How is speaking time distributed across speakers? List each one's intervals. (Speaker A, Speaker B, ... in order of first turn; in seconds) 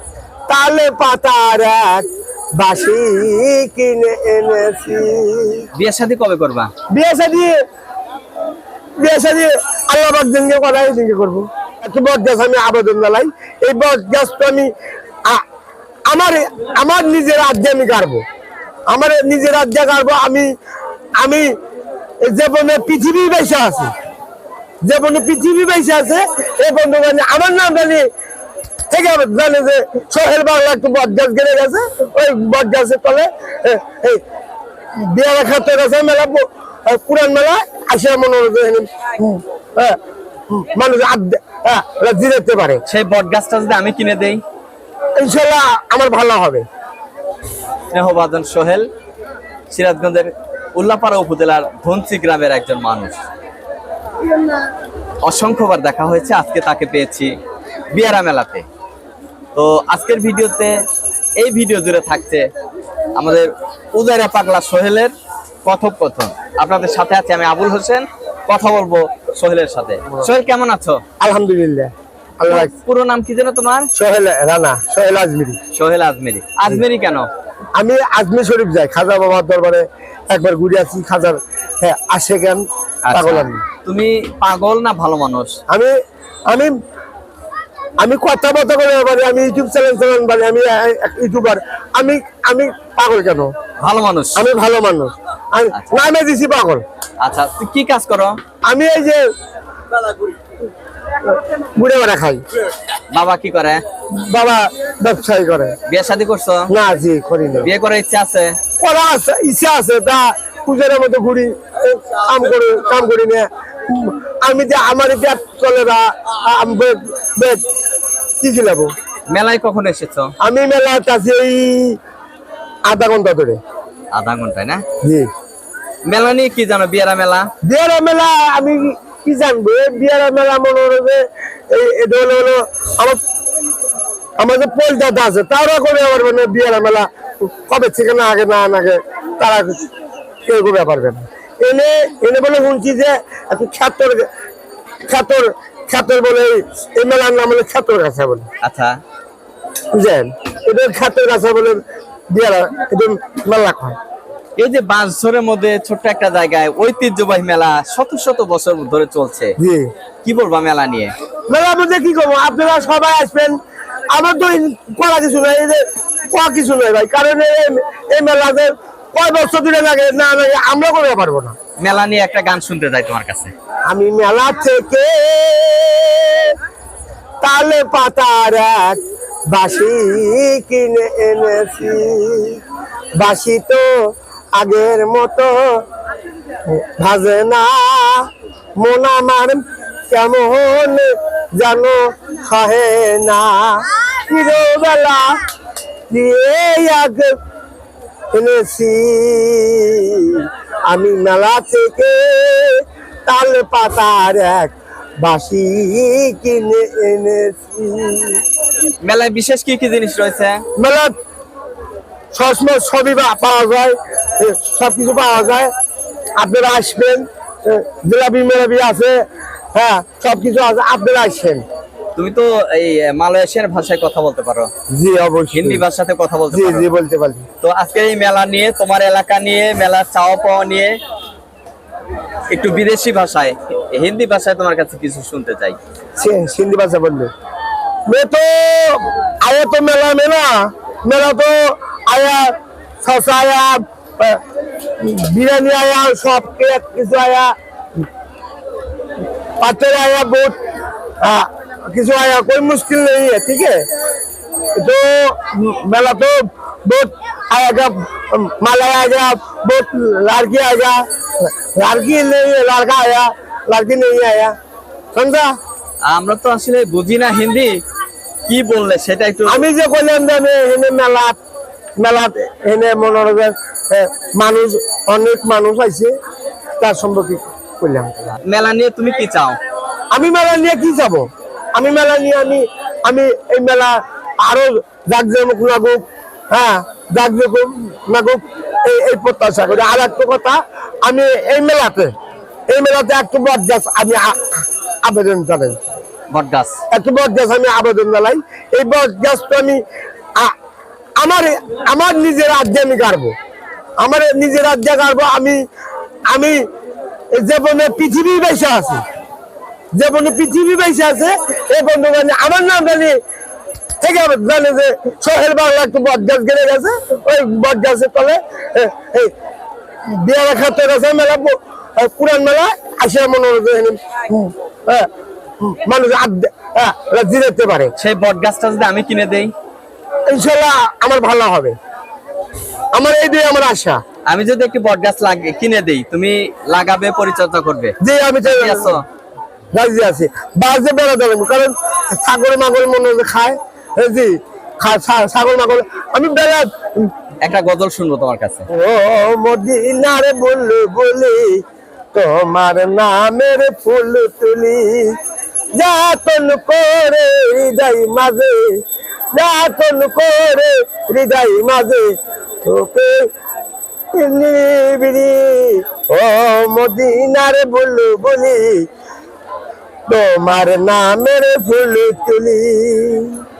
Speaker A: 0.5-2.1, 2.6-5.7, 6.9-7.6, 9.0-14.7, 16.1-18.2, 18.9-20.5, 21.2-21.5, 22.2-23.9, 24.9-28.1, 28.9-34.2, 35.0-40.0, 40.5-42.8, 45.2-46.6, 71.2-72.7, 74.0-75.6, 77.8-83.6, 88.0-93.5, 94.4-96.8, 98.7-99.2, 101.4-102.4, 104.2-105.8, 106.7-107.7, 108.8-117.6, 118.4-118.9, 120.4-122.0, 122.9-123.6, 125.0-125.3, 127.7-133.2, 134.4-139.8, 140.5-144.3, 145.1-148.5, 149.9-151.8, 152.3-154.0, 159.6-159.9, 161.5-163.6, 164.1-171.6, 173.9-176.5, 177.4-179.0, 179.5-182.6, 183.2-183.9, 184.6-185.8, 186.7-195.4, 196.1-197.4, 198.3-208.4, 210.8-211.1, 212.3-215.7, 216.4-219.2, 219.7-221.6, 224.9-225.8, 226.5-227.4, 236.2-237.3, 238.1-242.5, 243.0-244.4, 245.0-247.5, 249.6-250.6, 251.2-253.9, 254.8-264.6, 265.1-265.5, 269.5-271.4, 272.0-276.1, 276.8-278.4, 280.1-292.1, 292.7-295.8, 296.9-299.8, 301.2-303.3, 304.0-305.6, 306.3-306.6, 307.3-309.0, 309.9-313.2, 314.0-319.3, 320.1-325.1, 325.6-327.9, 330.3-331.8, 332.9-334.0, 338.0-339.0, 339.7-347.1, 348.7-351.6, 352.1-355.1, 355.8-358.8, 359.3-363.3, 364.1-368.9, 370.1-373.4
Speaker B: 5.8-6.7, 42.9-44.4, 47.9-48.9, 49.7-53.2, 55.2-57.3, 57.9-58.7, 59.5-60.7, 61.4-62.5, 63.1-65.1, 65.7-71.0, 72.5-73.9, 75.7-77.3, 83.0-85.6, 93.8-94.5, 95.7-96.0, 97.2-98.4, 103.1-103.8, 105.9-106.7, 107.6-108.6, 119.3-120.3, 124.1-124.8, 126.1-127.5, 148.6-149.0, 154.6-159.6, 160.2-161.1, 171.8-173.5, 209.0-210.6, 222.2-224.7, 225.5-226.9, 227.6-231.0, 232.5-235.8, 266.1-267.8, 268.5-269.7, 278.4-279.6, 296.3-296.8, 328.0-329.5, 334.3-339.0, 347.4-348.7